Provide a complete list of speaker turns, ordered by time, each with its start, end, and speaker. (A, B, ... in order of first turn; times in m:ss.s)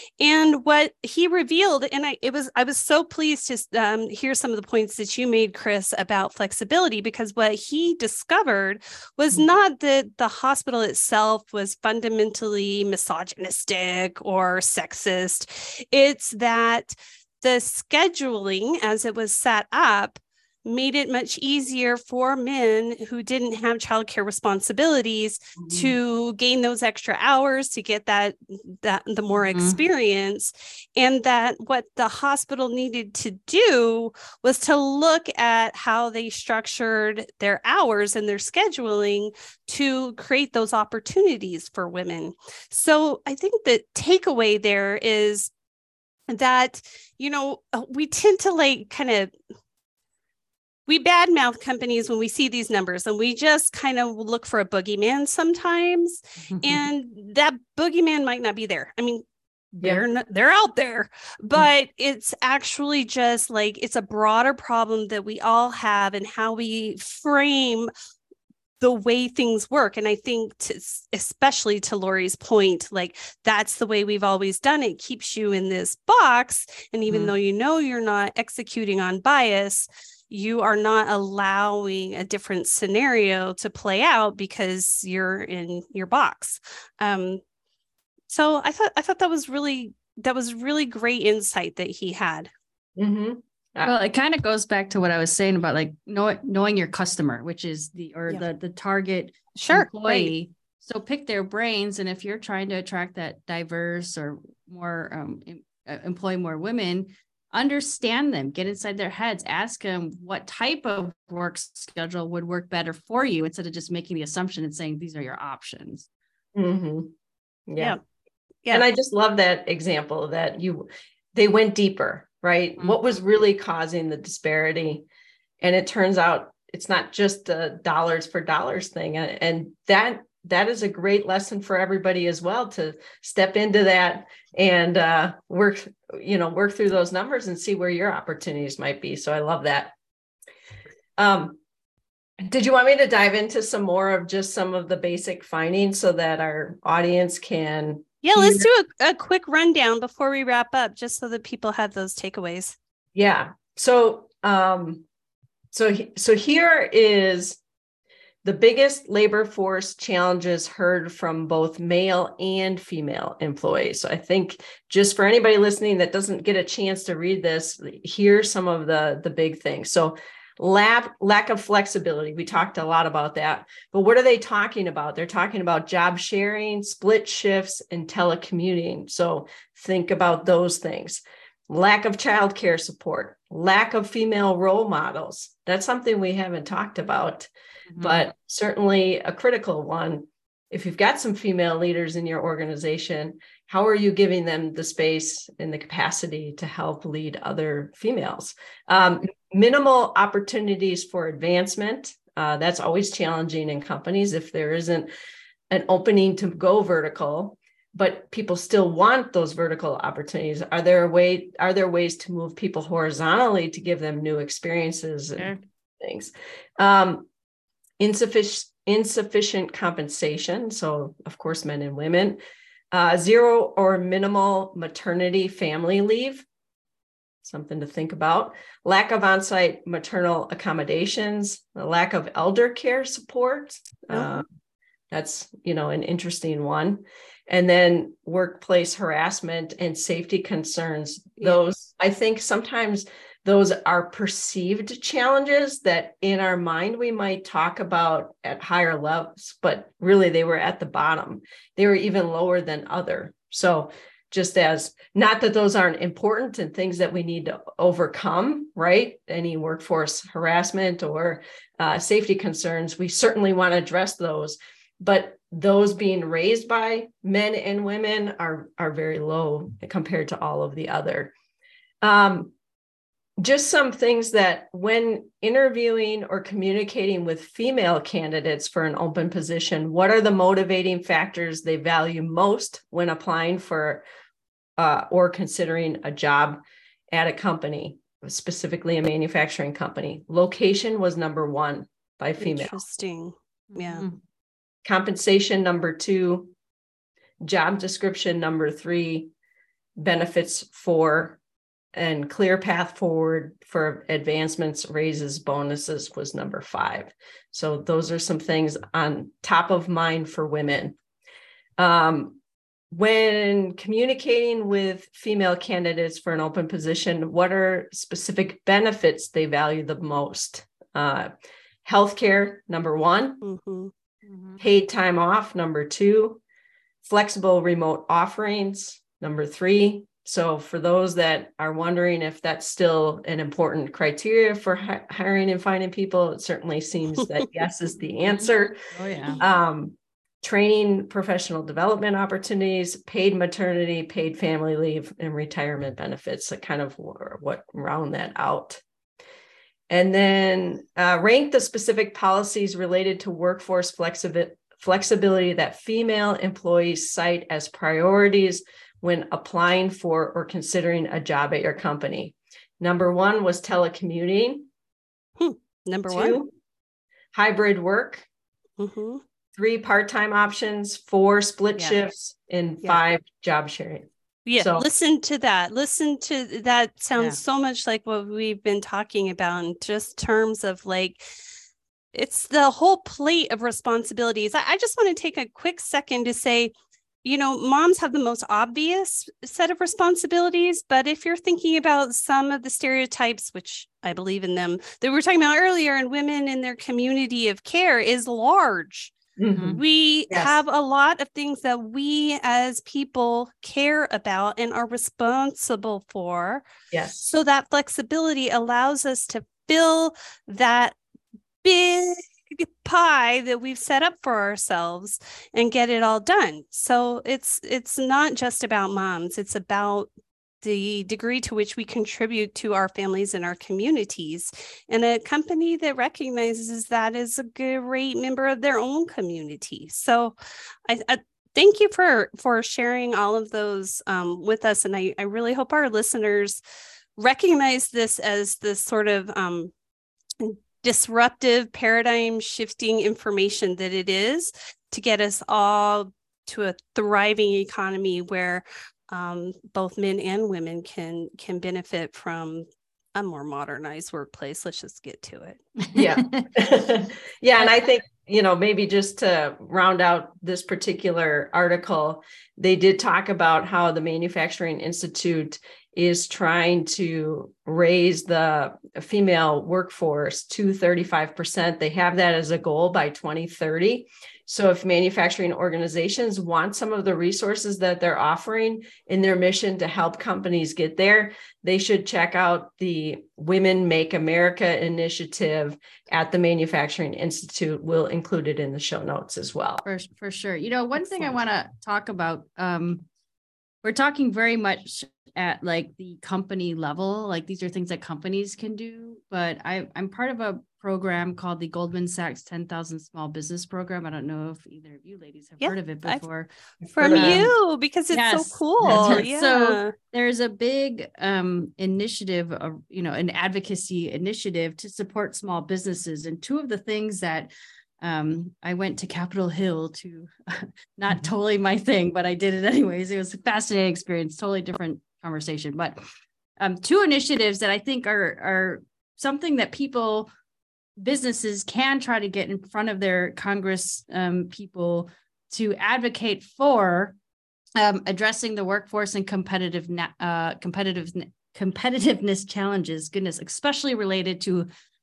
0:00.2-0:45.5 A
0:25.6-0:25.9 B
0:29.5-0:29.8 C
0:46.3-0:49.3 A
0:50.9-0:59.2 A
0:56.5-0:56.9 C
0:59.8-1:00.0 B
0:59.8-1:07.9 A
1:08.8-1:27.4 A
1:28.3-1:32.5 A
1:33.0-1:33.9 B
1:33.8-1:56.1 C
1:39.6-1:40.3 A
1:56.6-1:57.1 B
1:57.7-1:58.0 B
1:58.7-2:05.1 B
2:05.6-2:19.9 B
2:21.2-2:21.6 B
2:22.4-2:28.7 B
2:28.2-2:32.8 A
2:33.2-2:35.0 B
2:35.7-2:37.6 B
2:38.4-3:25.1 B
3:07.9-3:08.3 C
3:25.7-3:37.3 B
3:38.0-3:42.4 B
3:42.9-3:46.5 B
3:47.4-3:54.5 B
3:54.1-3:54.4 A
3:55.1-4:31.3 B
4:32.0-4:32.5 B
4:33.4-4:44.0 B
4:44.8-4:52.8 B
4:52.4-4:54.1 A
4:53.7-4:54.2 C
4:54.8-4:56.5 B
4:57.4-4:59.3 B
5:00.0-5:01.4 B
5:01.9-5:11.0 B
5:11.8-5:12.4 B
5:12.9-5:21.3 B
5:21.8-5:23.4 B
5:23.4-5:23.9 A
5:24.3-5:24.6 C
5:24.6-5:26.4 B
5:27.0-5:38.8 B
5:38.2-5:39.4 C
5:39.4-5:48.8 B
5:49.9-6:04.7 B
6:05.4-6:06.4 A
6:06.1-6:06.5 B
6:07.3-6:08.3 B
6:08.8-6:09.2 A
6:09.5-6:14.9 B
6:14.5-6:21.2 A
6:22.1-6:26.7 A
6:27.2-6:39.2 A
6:39.4-6:39.8 B
6:39.6-6:39.8 C
6:39.7-6:46.6 A
6:40.3-6:40.6 B
6:46.9-6:47.3 B
6:47.2-6:51.0 A
6:51.6-7:00.1 A
7:00.6-7:10.4 A
7:10.9-7:16.6 A
7:17.2-7:19.7 A
7:20.4-7:35.6 A
7:35.9-7:36.5 C
7:36.0-8:09.8 B
8:09.8-8:13.1 C
8:13.8-8:26.5 C
8:25.6-8:26.2 A
8:26.8-8:27.5 B
8:26.9-8:29.9 A
8:27.1-8:27.5 C
8:28.1-8:46.0 C
8:28.8-8:29.3 B
8:46.6-8:50.3 C
8:51.0-8:57.2 C
8:57.8-9:04.7 C